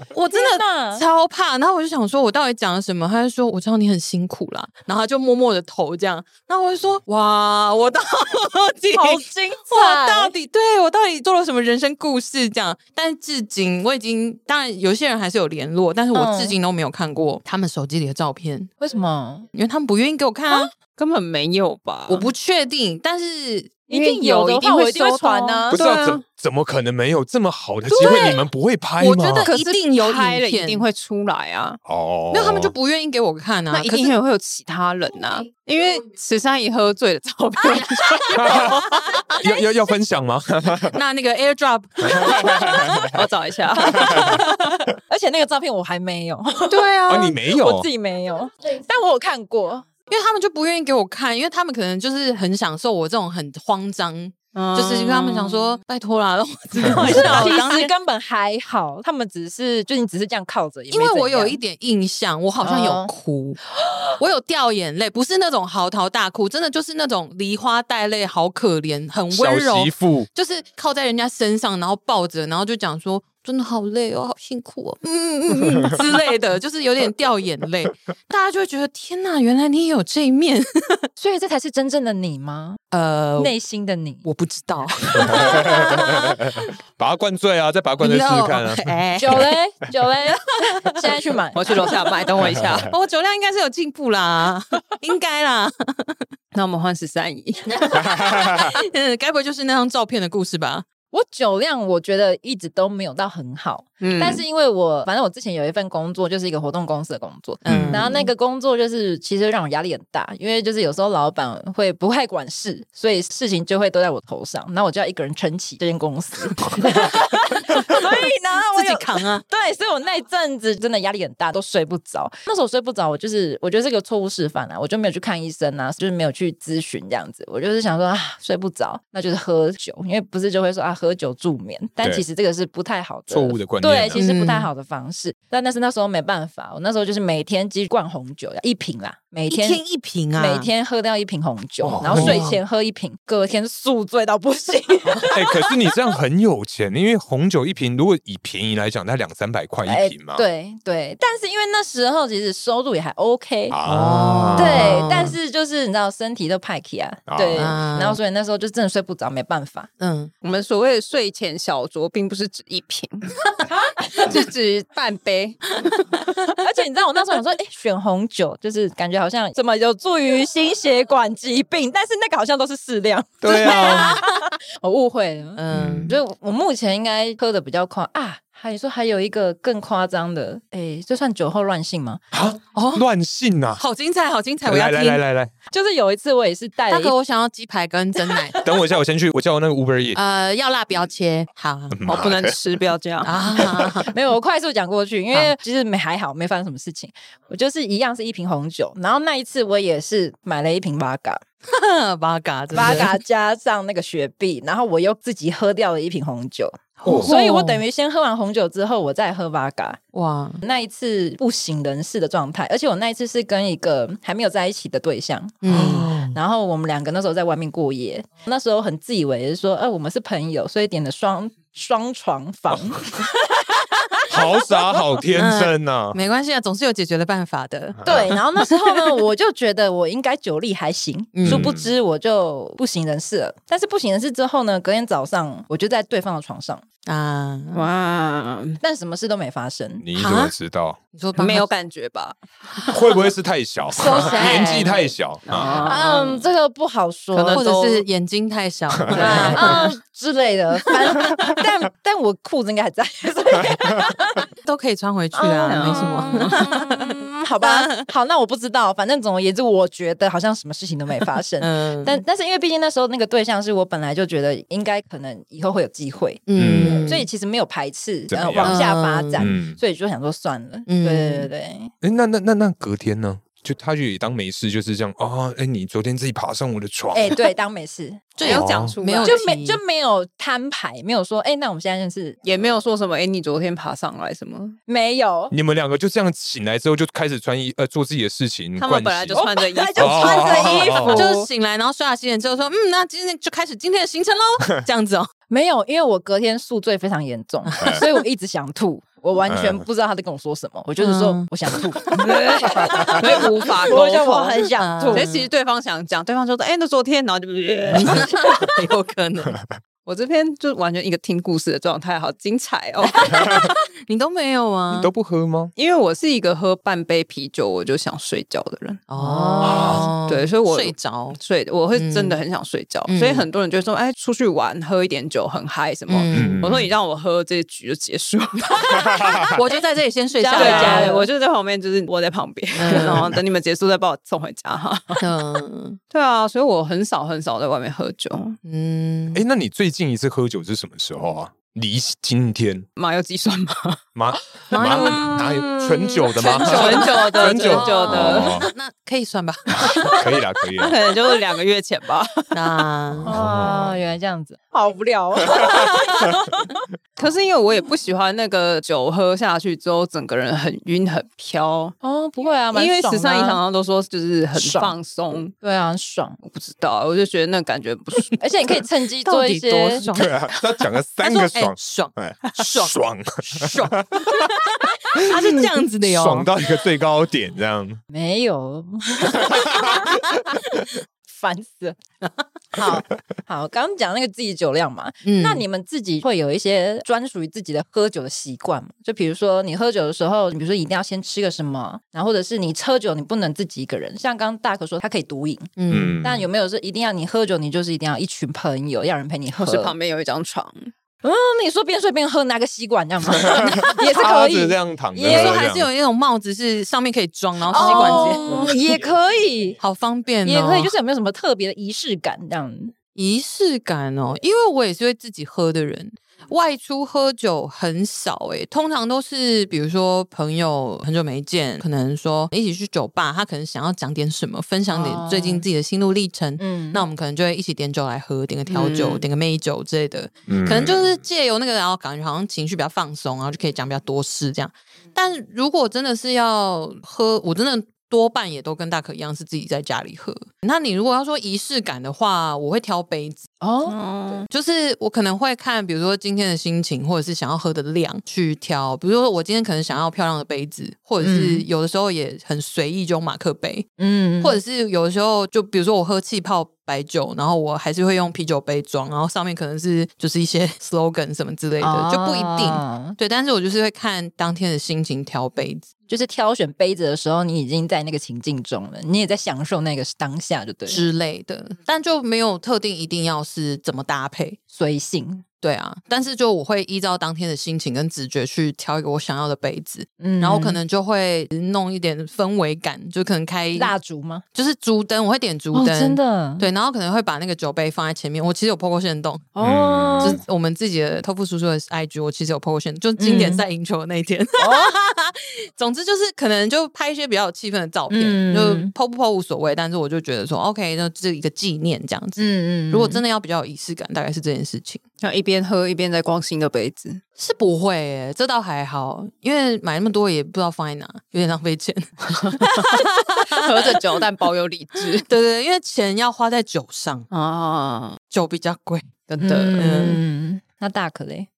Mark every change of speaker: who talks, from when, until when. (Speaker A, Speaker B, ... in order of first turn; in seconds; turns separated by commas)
Speaker A: 0.1-18.7, Speaker B: 0.3-1.0, Speaker B: 8.9-10.3, Speaker B: 16.1-16.5, Speaker B: 18.8-19.5, Speaker A: 19.5-20.7, Speaker C: 20.9-22.3, Speaker A: 22.1-26.2, Speaker B: 23.9-25.8, Speaker C: 25.2-26.1, Speaker D: 25.7-29.5, Speaker C: 27.9-28.3, Speaker A: 29.0-30.8, Speaker C: 29.4-31.8, Speaker D: 31.8-32.7, Speaker A: 32.3-34.1, Speaker C: 33.7-39.4, Speaker D: 38.4-38.8, Speaker D: 39.4-41.0, Speaker A: 40.9-42.8, Speaker D: 42.1-43.1, Speaker C: 43.0-44.4, Speaker B: 43.8-49.9, Speaker D: 44.1-44.4, Speaker C: 46.7-47.1, Speaker A: 46.8-47.2, Speaker D: 47.1-47.9, Speaker A: 50.1-57.9, Speaker C: 54.5-55.7, Speaker C: 57.0-57.5, Speaker B: 57.1-61.6, Speaker A: 60.9-63.6, Speaker B: 62.6-63.1, Speaker A: 64.2-81.0, Speaker D: 69.3-70.3, Speaker B: 81.2-82.8, Speaker A: 82.9-83.5, Speaker B: 83.4-84.2, Speaker A: 84.2-86.6, Speaker D: 85.2-89.5, Speaker B: 85.3-85.7, Speaker A: 88.0-89.5, Speaker B: 89.2-91.8, Speaker C: 91.5-92.9, Speaker D: 92.4-92.8, Speaker A: 92.8-96.2, Speaker C: 96.5-98.2, Speaker A: 97.9-100.8, Speaker B: 101.1-139.8, Speaker C: 104.0-104.4, Speaker A: 107.6-108.1, Speaker D: 107.7-108.1, Speaker A: 117.7-118.1, Speaker A: 118.7-119.4, Speaker D: 133.3-134.2, Speaker A: 134.1-134.7, Speaker A: 139.5-140.7, Speaker B: 140.3-145.7, Speaker D: 141.8-142.5, Speaker A: 142.0-142.6, Speaker D: 145.2-150.4, Speaker B: 149.8-153.8, Speaker D: 153.7-155.3, Speaker A: 153.8-155.3, Speaker B: 154.5-159.9, Speaker D: 157.3-157.8, Speaker A: 157.5-158.2, Speaker A: 160.0-160.3, Speaker C: 160.4-163.3, Speaker C: 164.1-166.1, Speaker B: 166.6-182.2, Speaker D: 173.4-174.2, Speaker A: 173.6-174.2, Speaker A: 175.6-176.2, Speaker D: 175.7-176.1, Speaker D: 182.3-183.8, Speaker A: 182.7-183.1, Speaker A: 183.8-185.2, Speaker D: 184.6-185.5, Speaker B: 185.7-187.1, Speaker A: 186.9-188.6, Speaker D: 188.6-190.2, Speaker A: 190.1-192.0, Speaker D: 191.9-192.8, Speaker C: 192.1-193.3, Speaker A: 193.2-194.1, Speaker D: 193.6-194.0, Speaker B: 194.1-201.4, Speaker A: 201.7-203.2, Speaker B: 202.7-210.0, Speaker A: 207.0-207.8, Speaker D: 207.1-207.3, Speaker A: 210.1-210.6, Speaker B: 210.6-224.5, Speaker A: 215.6-216.1, Speaker D: 215.7-216.4, Speaker D: 224.3-226.2, Speaker A: 225.4-228.3, Speaker D: 228.0-228.3, Speaker B: 228.1-236.8, Speaker A: 231.3-231.7, Speaker D: 231.4-231.9, Speaker A: 237.1-237.8, Speaker C: 237.7-238.8, Speaker B: 238.8-240.0, Speaker D: 240.0-241.0, Speaker A: 240.2-240.5, Speaker A: 241.1-241.7, Speaker C: 241.4-242.9, Speaker D: 242.9-245.8, Speaker A: 244.0-245.0, Speaker C: 244.0-244.9, Speaker C: 245.4-246.4, Speaker B: 245.8-247.7, Speaker C: 247.3-248.0, Speaker A: 247.5-249.9, Speaker B: 249.1-254.5, Speaker C: 249.1-249.8, Speaker D: 249.2-249.5, Speaker A: 254.6-258.1, Speaker B: 255.3-271.9, Speaker C: 255.6-256.7, Speaker A: 261.6-262.2, Speaker A: 266.5-267.3, Speaker D: 266.6-267.2, Speaker D: 268.3-268.8, Speaker A: 268.6-269.5, Speaker D: 269.4-269.8, Speaker A: 270.9-271.5, Speaker D: 272.0-277.4, Speaker B: 277.1-278.4, Speaker A: 278.4-279.8, Speaker C: 278.4-279.4, Speaker D: 278.4-279.0, Speaker B: 279.2-282.4, Speaker C: 282.4-284.8, Speaker B: 284.9-285.5, Speaker D: 285.5-291.2, Speaker C: 288.8-291.4, Speaker B: 289.3-291.4, Speaker A: 291.1-295.3, Speaker B: 295.5-305.3, Speaker A: 297.6-298.0, Speaker D: 299.5-299.8, Speaker A: 301.0-301.5, Speaker C: 302.2-308.7, Speaker A: 303.3-303.9, Speaker A: 304.8-305.5, Speaker A: 307.9-309.6, Speaker C: 310.0-313.7, Speaker A: 313.4-315.1, Speaker D: 314.9-315.7, Speaker C: 315.7-329.4, Speaker A: 319.1-321.4, Speaker D: 319.6-320.1, Speaker A: 321.9-322.4, Speaker A: 323.1-323.5, Speaker A: 326.1-326.6, Speaker D: 326.3-326.9, Speaker D: 329.1-329.5, Speaker A: 329.5-331.2, Speaker C: 330.4-335.3, Speaker B: 330.4-331.2, Speaker A: 332.8-333.4, Speaker A: 335.2-336.0, Speaker C: 336.1-338.6, Speaker A: 338.6-339.4, Speaker D: 339.3-342.9, Speaker C: 342.9-344.0, Speaker D: 344.1-348.7, Speaker C: 344.5-348.6, Speaker A: 344.7-345.3, Speaker A: 346.6-350.1, Speaker D: 349.8-351.0, Speaker C: 350.7-352.6, Speaker A: 352.5-353.4, Speaker D: 353.2-354.0, Speaker B: 353.2-356.7, Speaker C: 357.2-361.9, Speaker B: 362.0-363.6, Speaker C: 362.7-365.5, Speaker B: 364.5-364.9, Speaker B: 365.5-366.4, Speaker C: 366.4-368.4, Speaker B: 368.4-370.1, Speaker A: 369.2-370.3, Speaker D: 370.1-378.0, Speaker A: 371.2-374.5, Speaker A: 375.1-376.5, Speaker B: 378.1-380.2, Speaker D: 379.5-379.9, Speaker B: 381.3-382.0, Speaker B: 382.7-399.9, Speaker A: 385.2-385.6, Speaker A: 395.8-396.2, Speaker D: 395.9-396.5, Speaker C: 399.6-400.9, Speaker B: 401.2-405.7, Speaker D: 403.3-405.9, Speaker A: 405.2-408.5, Speaker B: 407.7-409.8, Speaker C: 407.7-408.7, Speaker A: 409.8-410.9, Speaker B: 410.4-412.9, Speaker A: 413.1-443.4, Speaker B: 424.9-425.6, Speaker B: 426.6-427.1, Speaker C: 428.7-429.2, Speaker D: 430.5-431.1, Speaker B: 443.6-444.0, Speaker C: 443.9-444.5, Speaker A: 444.5-453.9, Speaker B: 451.2-451.6, Speaker B: 454.0-454.6, Speaker A: 454.4-465.9, Speaker B: 461.8-463.2, Speaker B: 466.1-471.0, Speaker A: 470.9-474.6, Speaker B: 474.7-475.4, Speaker A: 475.6-483.9, Speaker B: 480.2-480.8, Speaker B: 483.7-484.4, Speaker A: 484.5-489.5, Speaker B: 485.7-486.7, Speaker B: 489.6-490.4, Speaker D: 489.6-490.4, Speaker A: 490.2-505.0, Speaker B: 493.2-493.6, Speaker B: 494.6-495.0, Speaker B: 498.1-498.9, Speaker B: 502.4-503.2, Speaker C: 505.2-507.2, Speaker A: 507.4-514.0, Speaker C: 512.4-515.3, Speaker A: 515.1-517.3, Speaker C: 517.3-518.2, Speaker A: 518.3-519.2, Speaker C: 519.3-520.1, Speaker B: 519.4-521.5, Speaker A: 519.7-520.2